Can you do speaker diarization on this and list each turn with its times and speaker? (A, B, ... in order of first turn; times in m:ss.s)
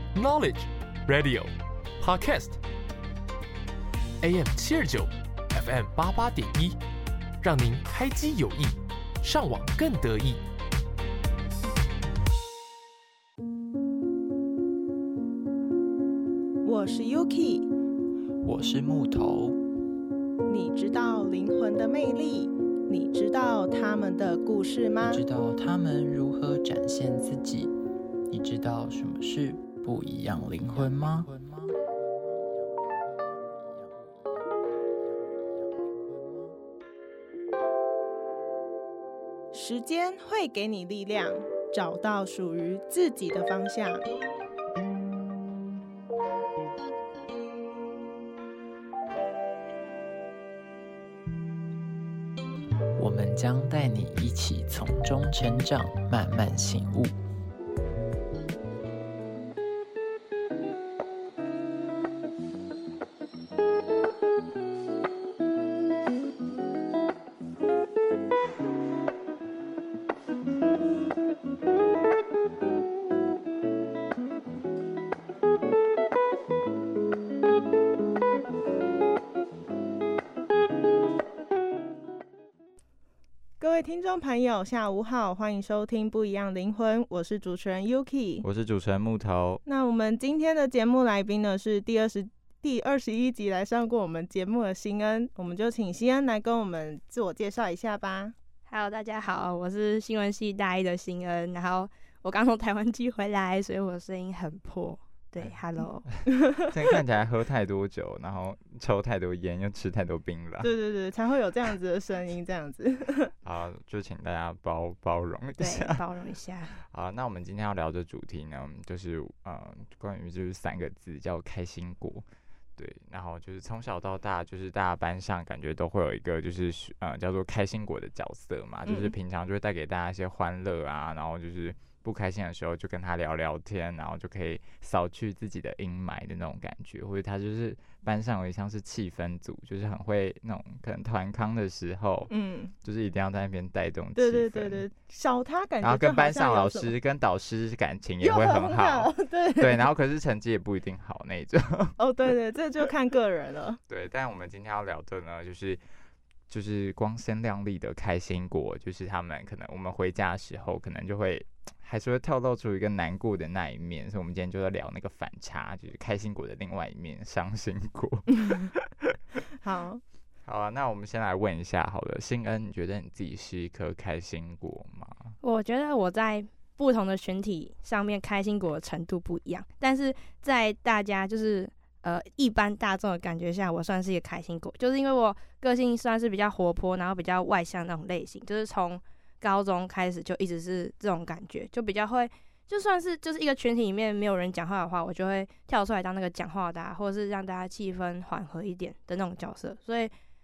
0:00.1-0:02.6 A
0:04.2-0:06.8 A
0:07.4-0:10.4 A
0:16.6-0:17.7 B
0:18.4-0:19.6 C
0:20.5-0:25.2 B
0:25.0-0:27.7 C
0:28.3-0:31.7 C
0:39.5-0:44.0 B
0:53.0-0:57.1 C
1:23.6-1:28.5 B
1:28.4-1:29.6 D
1:29.7-1:38.3 B
1:38.7-1:46.1 E
1:46.6-1:50.7 D
1:50.6-1:53.3 B
1:53.4-1:56.0 D
1:55.6-1:56.7 E
1:56.8-2:02.2 D
2:02.8-2:22.3 D
2:08.9-2:09.1 B
2:22.3-2:22.7 B
2:22.8-2:24.8 D
2:24.2-2:26.9 B
2:25.8-2:32.0 D
2:28.2-2:29.9 B
2:32.0-2:33.8 B
2:33.9-2:35.8 D
2:36.5-2:49.2 D
2:49.6-2:50.0 B
2:50.4-2:55.3 D
2:55.4-3:20.1 E